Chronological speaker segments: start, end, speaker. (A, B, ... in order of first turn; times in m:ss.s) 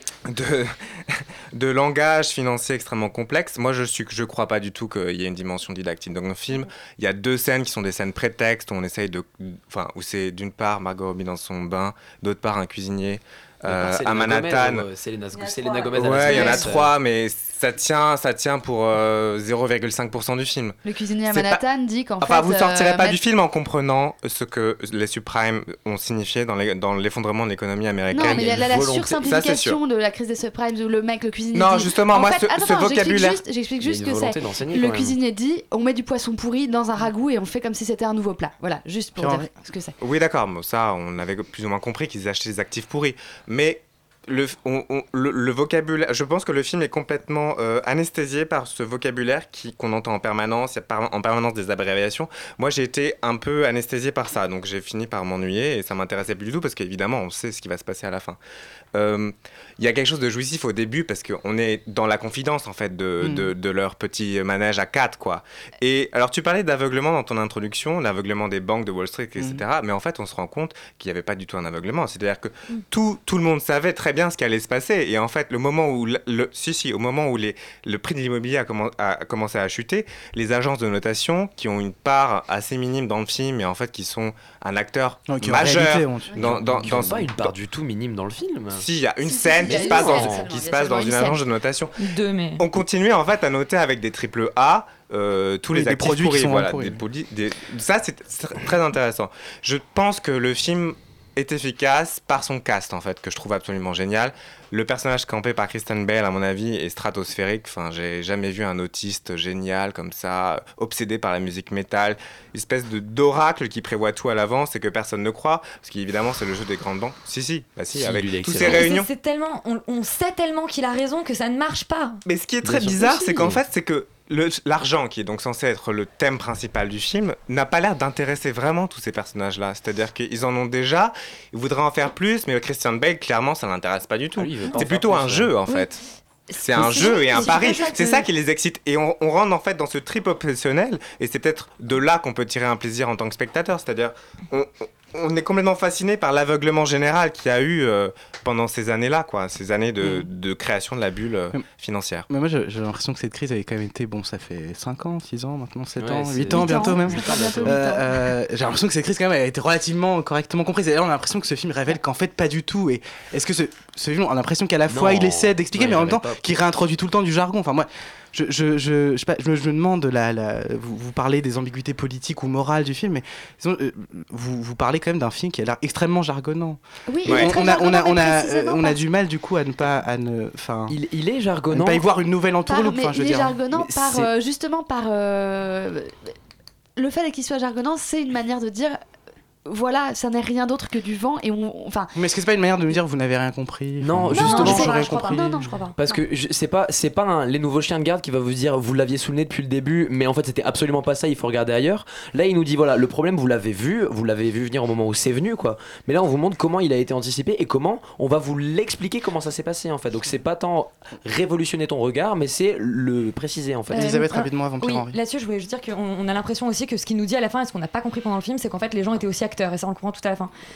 0:00.3-0:14.9 A
0:13.6-0:16.9 B
0:15.4-0:16.6 C
0:15.9-0:21.6 A
0:20.8-0:23.2 C
0:22.2-0:29.8 A
0:28.1-0:40.0 C
0:28.2-0:29.3 B
0:31.5-0:33.4 A
0:33.8-0:35.2 B
0:39.2-0:39.5 D
0:40.0-0:58.4 A
0:59.0-1:27.5 A
1:03.2-1:03.5 D
1:09.4-1:09.6 D
1:25.3-1:27.2 D
1:26.4-1:28.9 B
1:28.7-1:59.1 A
1:29.2-1:31.4 C
1:29.6-1:30.6 B
1:32.0-1:32.6 E
1:35.7-1:37.0 D
1:57.9-1:58.9 B
1:58.6-2:02.2 E
2:02.3-2:16.0 A
2:02.6-2:03.6 B
2:03.1-2:03.4 E
2:14.4-2:15.5 B
2:16.6-2:32.3 A
2:16.7-2:18.2 C
2:16.8-2:18.2 E
2:32.3-3:01.0 D
2:36.0-2:37.9 B
2:36.5-2:38.1 C
2:44.9-2:46.6 B
2:57.1-2:59.0 C
2:57.3-2:57.5 A
3:00.9-3:02.0 B
3:01.7-3:03.6 D
3:02.7-3:06.3 C
3:03.8-3:04.3 B
3:07.0-3:09.0 C
3:09.6-3:12.1 C
3:12.2-3:15.6 D
3:14.0-3:15.0 B
3:14.3-3:16.0 E
3:14.4-3:16.1 C
3:16.0-3:34.1 B
3:33.9-3:40.5 E
3:33.9-3:35.2 D